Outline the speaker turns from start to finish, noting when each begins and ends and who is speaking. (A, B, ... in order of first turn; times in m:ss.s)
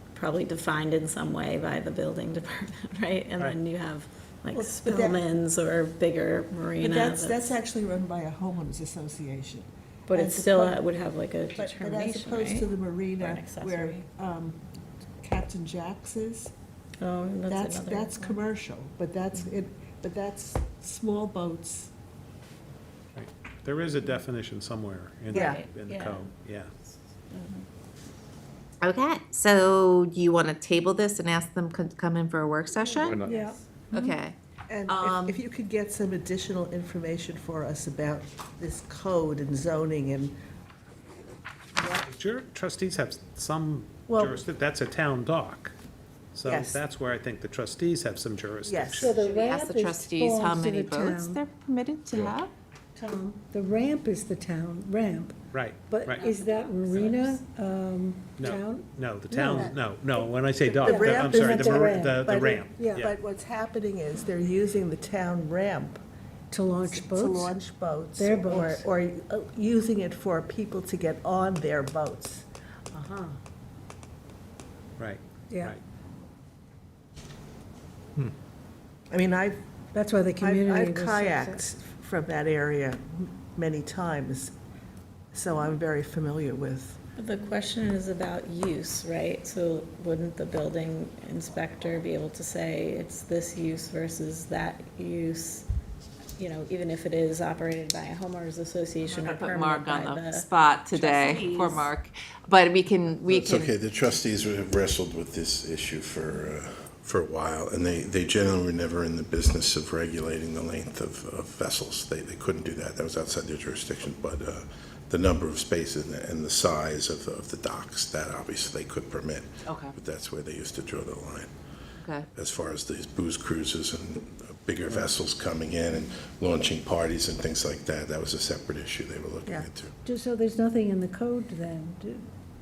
0:00.1-0:07.4 A
0:04.5-0:05.2 B
0:06.8-0:10.8 B
0:10.1-0:14.0 A
0:11.6-0:14.6 B
0:15.2-0:16.5 B
0:17.0-0:18.4 A
0:17.5-0:21.9 B
0:23.1-0:26.7 C
0:25.3-0:26.3 A
0:25.3-0:25.6 B
0:27.3-0:27.6 A
0:28.8-0:33.2 D
0:33.0-0:33.7 B
0:33.2-0:33.6 E
0:33.9-0:34.3 D
0:34.7-0:40.3 B
0:34.8-0:35.4 D
0:41.8-0:42.0 B
0:42.1-0:45.7 C
0:44.1-0:44.4 B
0:46.3-0:49.1 C
0:46.4-0:46.8 B
0:48.6-0:49.2 B
0:49.0-0:51.4 E
0:49.1-0:52.5 D
0:53.0-0:55.4 E
0:55.5-0:56.2 C
0:55.9-0:59.7 E
0:56.3-0:57.3 D
0:58.4-1:03.1 C
0:59.4-0:59.8 B
1:00.8-1:06.0 B
1:00.9-1:03.0 E
1:06.5-1:07.5 E
1:06.8-1:12.4 B
1:08.2-1:08.8 E
1:15.0-1:15.8 C
1:15.5-1:15.7 E
1:19.1-1:19.6 B
1:19.9-1:21.6 E
1:20.4-1:24.5 B
1:25.3-1:27.0 B
1:27.2-1:35.7 A
1:36.4-1:41.9 A
1:39.1-1:43.7 D
1:43.3-2:01.5 F
1:59.6-1:59.9 D
2:02.0-2:02.3 D
2:02.3-2:09.9 F
2:10.0-2:12.3 E